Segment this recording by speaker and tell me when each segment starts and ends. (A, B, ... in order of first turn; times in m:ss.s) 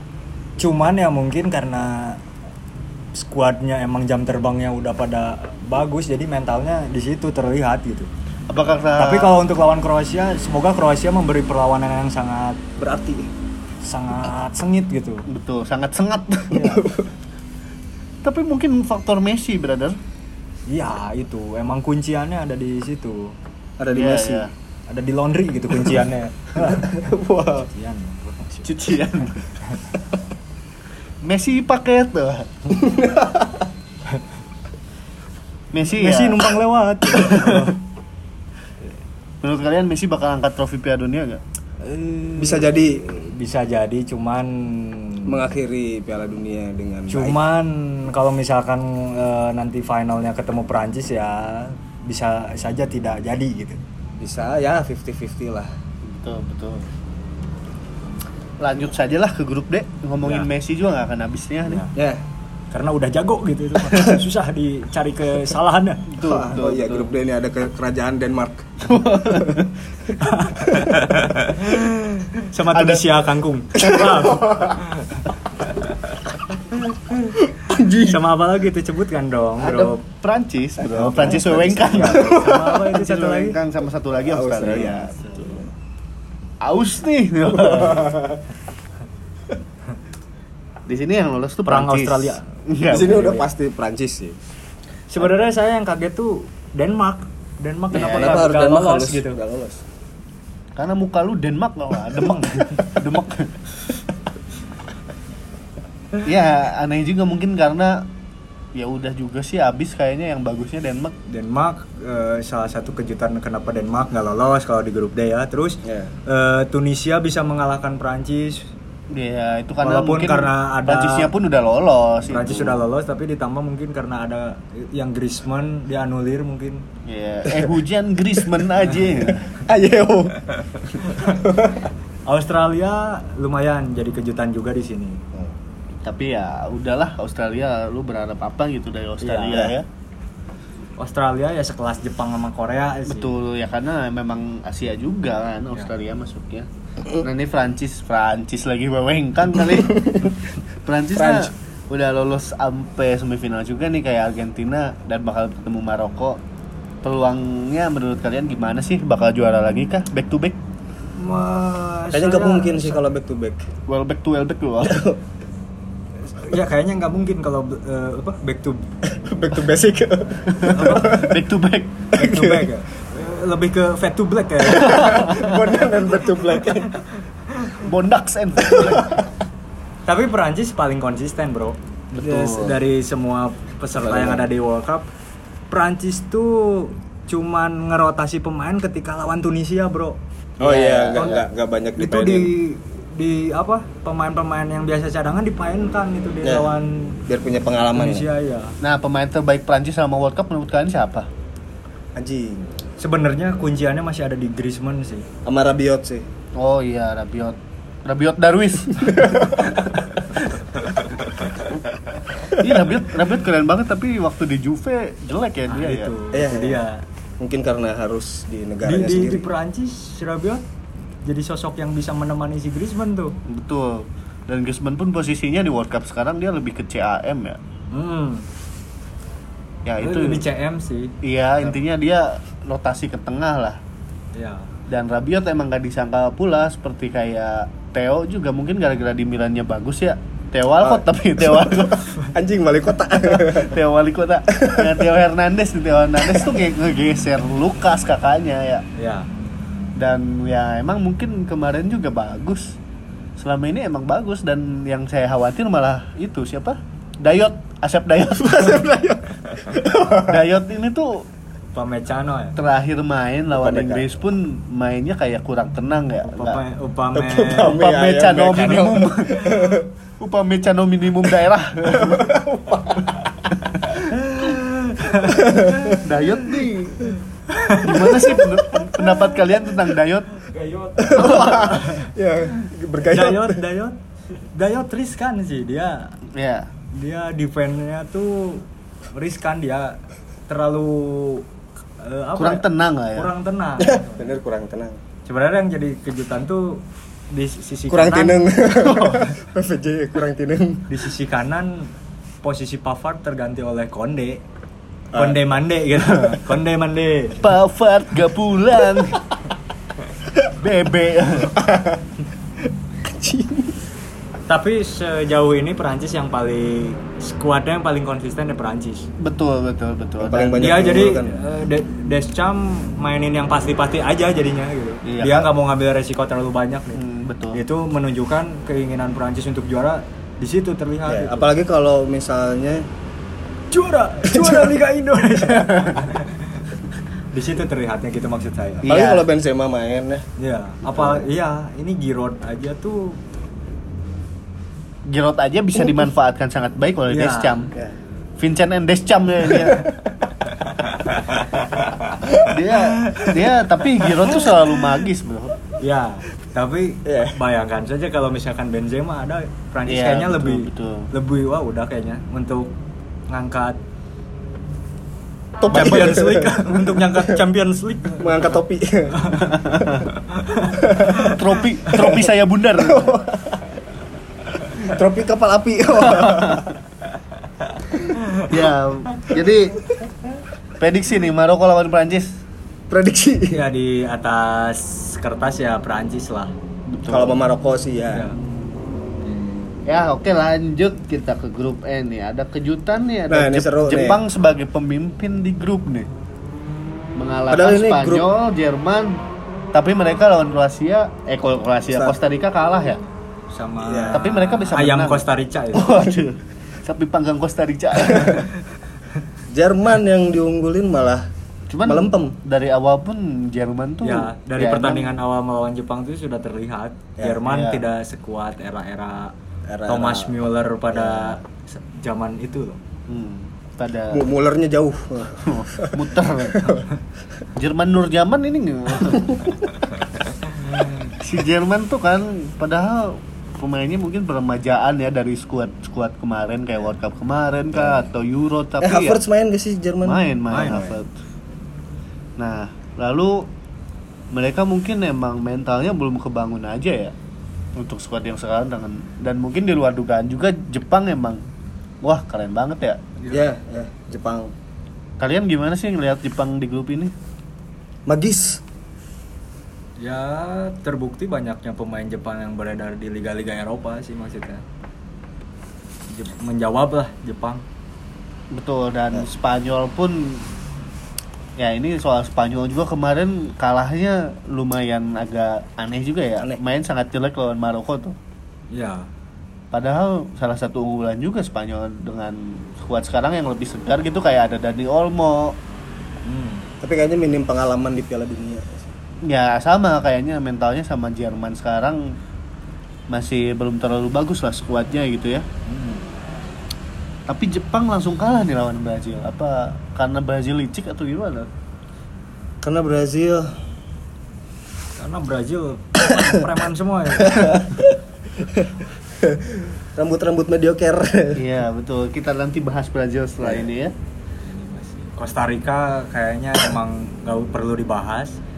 0:00.6-0:02.2 A
0:03.2-0:08.1 A
0:08.5-0:09.4 B
0:09.0-0:12.6 A
0:12.8-0:13.3 C
0:13.8-0:15.3 A
0:15.3-0:16.7 B
0:16.5-0:16.8 A
0:16.5-0:17.1 C
0:18.2-0:20.0 B
0:20.7-0:23.4 A
0:23.8-0:24.5 C
0:23.9-0:24.5 B
0:24.9-0:27.1 A
0:26.6-0:27.7 C
0:27.7-0:28.7 A
0:28.6-0:29.5 B
0:31.2-0:32.7 B
0:32.8-0:33.7 C
0:35.7-0:36.5 B
0:35.9-0:37.8 A
0:37.1-0:37.7 B
0:39.4-0:41.4 B
0:41.8-0:45.3 A
0:42.4-0:43.0 C
0:45.3-0:47.4 C
0:47.1-0:53.8 A
0:54.2-0:55.7 C
0:56.0-0:56.8 B
0:58.6-1:01.9 B
1:02.0-1:02.2 C
1:02.7-1:06.1 A
1:06.1-1:07.1 B
1:06.2-1:08.8 C
1:08.8-1:09.8 B
1:10.2-1:15.2 A
1:12.7-1:13.1 B
1:13.9-1:14.7 C
1:16.7-1:20.0 A
1:17.5-1:18.2 C
1:19.6-1:25.6 B
1:20.9-1:22.6 C
1:21.0-1:23.6 A
1:24.3-1:25.6 C
1:26.6-1:28.2 B
1:27.6-1:28.4 C
1:30.9-1:33.4 B
1:31.7-1:32.5 A
1:32.9-1:34.4 C
1:33.1-1:33.4 A
1:35.1-1:39.4 A
1:37.9-1:39.8 C
1:38.0-1:38.3 B
1:40.8-1:43.6 B
1:46.2-1:48.1 B
1:48.7-1:51.1 B
1:51.3-1:58.7 A
1:55.8-1:56.1 C
1:59.1-2:02.8 B
1:59.8-2:01.3 A
2:02.3-2:06.8 A
2:07.1-2:09.5 B
2:09.5-2:11.9 C
2:11.0-2:11.4 A
2:12.3-2:15.2 A
2:16.0-2:19.9 B
2:19.2-2:19.7 A
2:19.5-2:19.8 C
2:21.0-2:23.3 A
2:23.1-2:30.3 B
2:29.9-2:30.3 C
2:30.8-2:36.4 B
2:31.2-2:31.5 C
2:37.0-2:40.6 B
2:41.1-2:43.0 A
2:42.1-2:43.7 C
2:43.9-2:45.0 B
2:44.8-2:45.2 C
2:46.3-2:48.9 A
2:49.1-2:51.3 C
2:50.5-2:52.0 B
2:50.6-2:51.3 A
2:52.2-2:52.8 C
2:52.2-2:55.6 A
2:54.7-2:57.0 C
2:55.1-2:55.5 B
2:57.8-2:59.1 B
2:58.6-2:59.3 C
3:00.1-3:05.1 A
3:02.3-3:02.7 C
3:04.0-3:04.5 C
3:05.7-3:11.4 A
3:10.6-3:12.5 C
3:10.7-3:11.4 B
3:12.0-3:17.2 A
3:16.4-3:18.3 C
3:17.9-3:18.8 A
3:18.8-3:21.3 B
3:22.2-3:22.7 C
3:23.0-3:25.3 A
3:25.4-3:26.3 C
3:26.6-3:30.0 B
3:29.2-3:29.6 C
3:32.6-3:36.1 B
3:35.7-3:37.0 A
3:36.3-3:36.8 C
3:37.4-3:39.5 C
3:38.8-3:40.6 A
3:41.2-3:43.4 A
3:43.5-3:47.6 B
3:47.9-3:48.5 A
3:49.9-3:50.5 B
3:50.0-3:51.1 A
3:51.2-3:53.8 B
3:54.3-3:54.7 A
3:54.9-4:02.1 B
4:00.8-4:03.7 C
4:03.3-4:08.8 B
4:04.5-4:05.0 C
4:09.0-4:09.3 A
4:10.0-4:12.8 B
4:13.4-4:18.9 B
4:18.4-4:20.4 C
4:20.2-4:21.3 B
4:21.7-4:22.6 A
4:22.6-4:26.6 B
4:23.5-4:24.1 C
4:26.2-4:27.8 A
4:27.1-4:29.9 C
4:27.6-4:29.5 B
4:30.2-4:32.3 B
4:31.9-4:33.2 C
4:33.9-4:36.0 A
4:35.2-4:36.1 C
4:36.0-4:37.1 B
4:37.5-4:38.2 A
4:37.8-4:40.3 B
4:37.9-4:39.1 C
4:40.5-4:42.1 A
4:41.0-4:43.6 C
4:41.2-4:41.7 B
4:43.0-4:44.0 A
4:44.5-4:46.2 A
4:46.3-4:46.7 B
4:46.9-4:50.0 A
4:50.5-4:51.5 A
4:52.0-4:54.3 A
4:52.4-4:53.3 B
4:53.8-4:55.0 C
4:55.3-4:59.2 A
4:57.9-5:00.9 C
5:00.9-5:04.4 A
5:05.1-5:05.4 C
5:05.2-5:07.5 A
5:07.4-5:09.2 B
5:10.6-5:11.6 B
5:11.5-5:12.0 C
5:13.0-5:13.8 C
5:14.5-5:19.1 A
5:19.2-5:20.8 B
5:20.2-5:21.4 C
5:20.6-5:31.5 A
5:25.0-5:25.5 B
5:27.0-5:27.6 B
5:31.1-5:32.9 C
5:33.7-5:36.7 A
5:34.3-5:34.8 C
5:37.3-5:39.0 A
5:38.8-5:39.3 B
5:38.9-5:40.3 C
5:40.4-5:43.2 A
5:40.9-5:41.3 C
5:45.1-5:47.7 B
5:47.1-5:47.7 A
5:48.4-5:49.9 B
5:50.7-5:52.4 A
5:52.5-5:55.6 B
5:53.0-5:53.3 A
5:54.0-5:54.4 A
5:55.8-6:02.7 A
5:57.0-5:57.4 C
5:59.9-6:01.1 B
6:03.3-6:03.8 A
6:05.6-6:07.4 C
6:05.7-6:08.6 A
6:08.2-6:09.4 C
6:09.4-6:10.1 B
6:10.2-6:11.4 A
6:10.8-6:11.3 C
6:11.2-6:13.2 B
6:11.9-6:12.2 C
6:12.8-6:13.6 C
6:14.8-6:16.7 C
6:16.2-6:16.7 B
6:18.1-6:18.5 A
6:18.5-6:19.8 B
6:20.8-6:22.4 B
6:22.9-6:23.6 C
6:23.5-6:26.5 A
6:26.9-6:27.4 B
6:27.1-6:28.3 C
6:28.1-6:28.4 A
6:29.9-6:36.1 B
6:33.3-6:34.2 C
6:37.2-6:39.2 B
6:37.5-6:38.3 C
6:39.7-6:43.0 B
6:43.5-6:46.0 A
6:43.8-6:44.2 C
6:44.1-6:48.5 B
6:49.5-6:51.3 C
6:51.7-6:55.2 B
6:51.9-6:52.4 C
6:54.0-6:59.3 A
6:57.4-6:57.8 B
6:59.7-7:00.4 C
6:59.9-7:02.8 A
7:00.9-7:01.4 C
7:03.1-7:04.3 B
7:04.1-7:06.9 C
7:05.4-7:06.7 B
7:07.6-7:09.6 B
7:09.1-7:09.5 C
7:11.1-7:19.2 B
7:18.8-7:21.0 C
7:20.0-7:21.1 B
7:20.5-7:20.8 A
7:22.4-7:23.5 B
7:24.3-7:27.2 B
7:27.8-7:31.4 B
7:32.0-7:33.0 B
7:33.2-7:33.5 A
7:33.3-7:34.5 C
7:35.2-7:37.1 B
7:38.1-7:38.6 C
7:40.0-7:44.6 A
7:46.1-7:47.6 A
7:48.5-7:50.5 B
7:51.6-7:58.2 B
7:58.7-7:59.1 A
7:59.7-8:05.6 B
8:06.2-8:06.7 A
8:06.8-8:08.9 C
8:09.2-8:12.2 B
8:13.1-8:15.5 B
8:15.7-8:16.0 A
8:17.3-8:21.5 B
8:22.6-8:23.5 C
8:25.0-8:27.6 A
8:27.2-8:31.4 C
8:31.4-8:33.9 B
8:33.4-8:33.7 C
8:34.4-8:38.4 A